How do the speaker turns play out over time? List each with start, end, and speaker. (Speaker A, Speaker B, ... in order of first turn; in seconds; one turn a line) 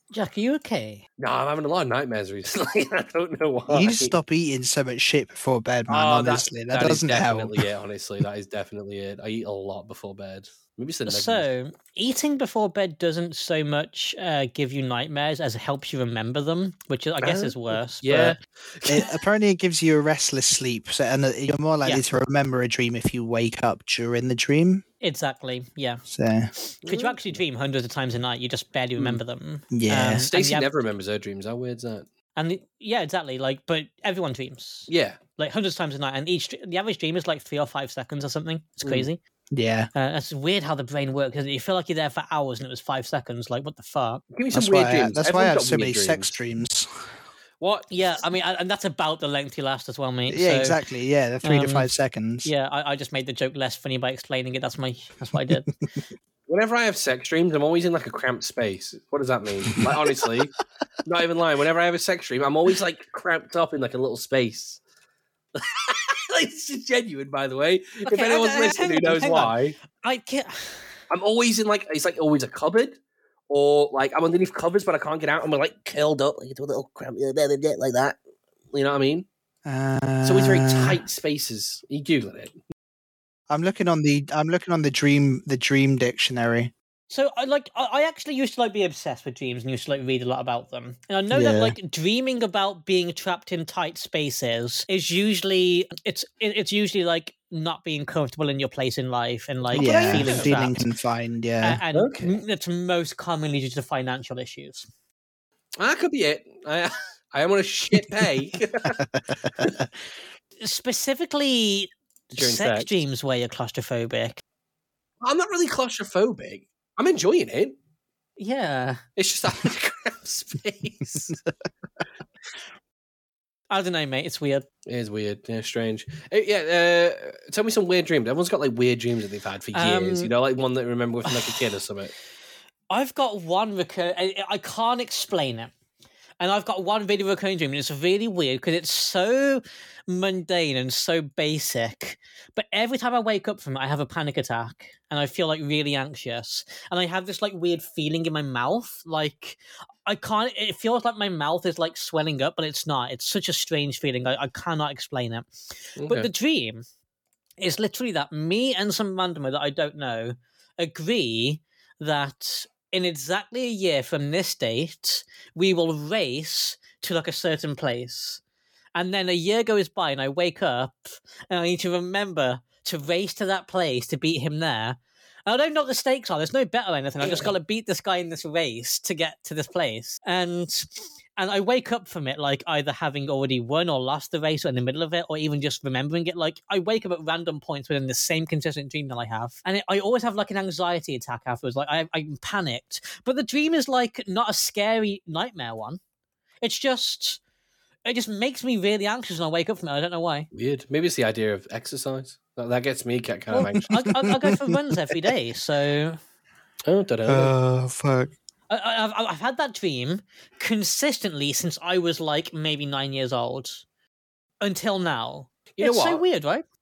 Speaker A: 0.1-1.0
Speaker B: 1.2-4.1
Speaker C: 3.7-7.6
Speaker B: 5.9-11.5
Speaker A: 11.1-18.4
Speaker B: 17.2-19.2
Speaker C: 18.9-24.8
Speaker A: 25.0-26.0
Speaker C: 26.1-26.5
Speaker A: 26.6-30.7
Speaker B: 26.8-27.4
Speaker C: 29.7-30.2
Speaker B: 30.2-32.1
Speaker A: 32.4-39.2
Speaker B: 34.9-35.2
Speaker C: 39.5-39.9
Speaker A: 39.9-44.2
Speaker B: 44.3-46.3
Speaker C: 44.5-46.9
Speaker B: 47.6-47.9
Speaker A: 47.9-50.8
Speaker C: 50.3-52.5
Speaker A: 51.4-51.9
Speaker A: 52.4-55.7
Speaker C: 55.2-55.5
Speaker B: 56.5-64.8
Speaker C: 59.7-60.0
Speaker B: 65.5-69.8
Speaker A: 68.0-70.8
Speaker B: 71.1-73.0
Speaker B: 73.5-78.2
Speaker B: 78.7-79.3
Speaker C: 79.7-81.0
Speaker B: 80.2-82.6
Speaker C: 83.5-86.7
Speaker A: 87.1-100.8
Speaker C: 91.3-91.7
Speaker B: 99.7-100.5
Speaker C: 99.7-101.8
Speaker A: 101.6-104.9
Speaker B: 101.9-102.3
Speaker B: 105.8-109.0
Speaker C: 109.0-109.8
Speaker A: 110.6-114.4
Speaker B: 112.3-112.9
Speaker B: 115.2-117.7
Speaker A: 118.4-119.0
Speaker B: 119.2-121.4
Speaker A: 123.7-124.7
Speaker B: 124.9-132.1
Speaker A: 129.7-130.3
Speaker A: 132.9-135.7
Speaker A: 136.4-156.8
Speaker B: 156.0-156.3
Speaker A: 157.6-168.4
Speaker A: 168.9-196.0
Speaker B: 177.2-177.5
Speaker A: 196.6-197.4
Speaker A: 198.1-200.5
Speaker B: 200.5-204.0
Speaker A: 203.5-206.2
Speaker C: 203.9-204.8
Speaker B: 206.9-207.5
Speaker C: 207.2-208.3
Speaker A: 208.7-213.8
Speaker A: 214.6-216.6
Speaker B: 215.8-216.2